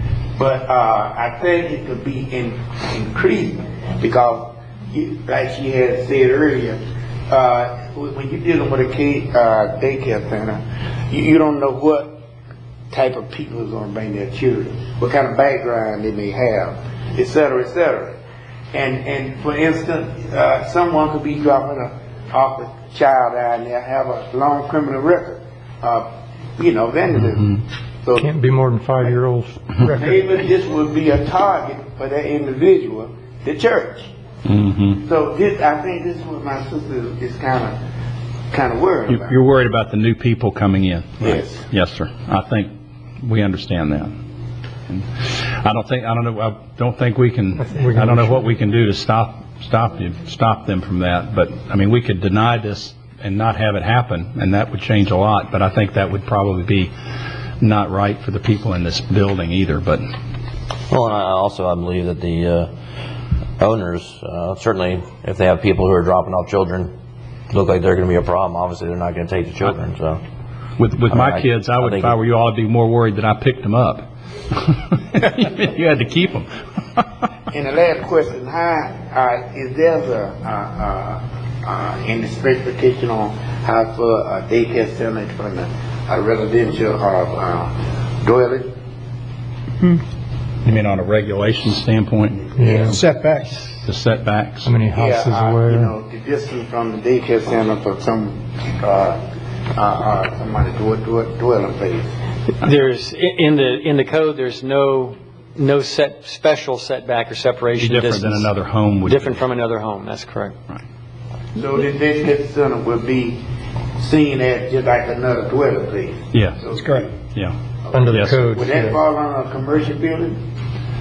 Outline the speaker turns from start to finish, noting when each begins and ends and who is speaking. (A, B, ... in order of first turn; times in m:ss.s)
0:00.4-0:12.2 A
0:12.9-0:18.2 A
0:18.7-0:28.4 A
0:28.2-0:30.2 B
0:29.0-0:29.2 A
0:29.8-0:34.1 A
0:34.5-0:35.0 C
0:35.0-0:37.8 A
0:38.5-0:39.3 A
0:39.1-0:42.7 C
0:41.2-0:41.6 A
0:43.2-0:44.2 C
0:44.9-0:56.9 C
0:47.6-0:48.5 B
0:57.6-1:00.0 C
1:00.9-1:02.7 D
1:03.6-1:06.9 D
1:07.5-1:10.2 D
1:10.8-1:17.3 C
1:11.1-1:12.2 D
1:17.5-1:28.7 A
1:30.6-1:33.0 C
1:32.5-1:33.5 B
1:32.6-1:33.0 A
1:33.8-1:34.7 C
1:34.6-1:35.9 B
1:34.9-1:39.2 A
1:39.7-1:42.1 A
1:42.6-1:48.5 E
1:47.8-1:49.4 C
1:49.0-1:50.6 E
1:51.6-1:53.4 A
1:54.0-1:57.1 A
1:56.3-1:57.6 C
1:57.9-1:59.0 B
1:57.9-2:00.4 A
1:58.1-1:58.4 C